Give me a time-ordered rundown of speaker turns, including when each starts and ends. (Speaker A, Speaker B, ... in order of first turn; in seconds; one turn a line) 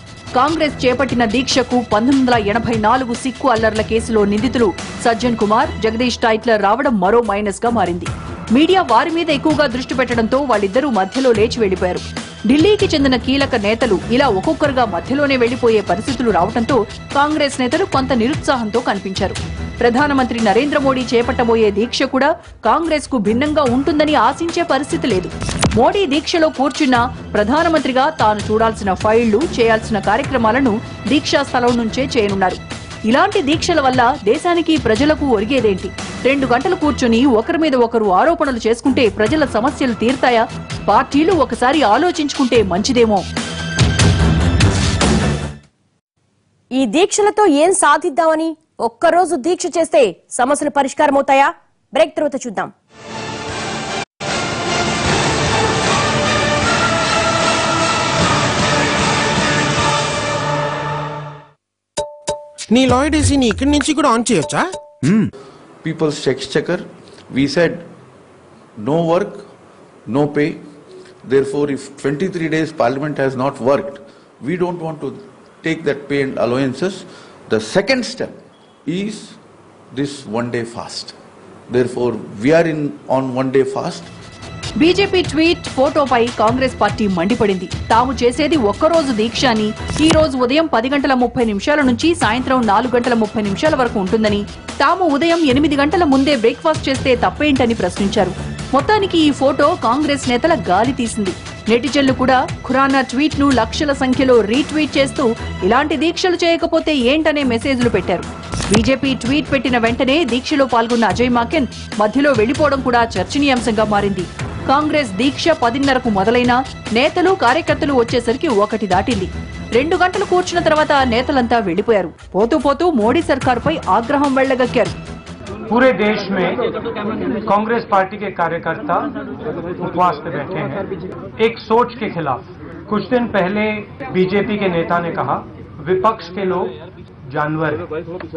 Speaker A: 0.3-43.2
Speaker B: 46.8-52.7
Speaker C: 62.7-65.2
Speaker D: 65.8-67.9
Speaker D: 68.8-69.5
Speaker D: 70.1-70.6
Speaker D: 71.3-78.3
Speaker D: 78.9-79.4
Speaker D: 79.9-81.2
Speaker D: 81.7-84.1
Speaker A: 84.8-125.0
Speaker E: 125.7-126.6
Speaker E: 127.4-129.1
Speaker E: 129.8-130.9
Speaker E: 131.4-136.8
Speaker E: 137.3-137.9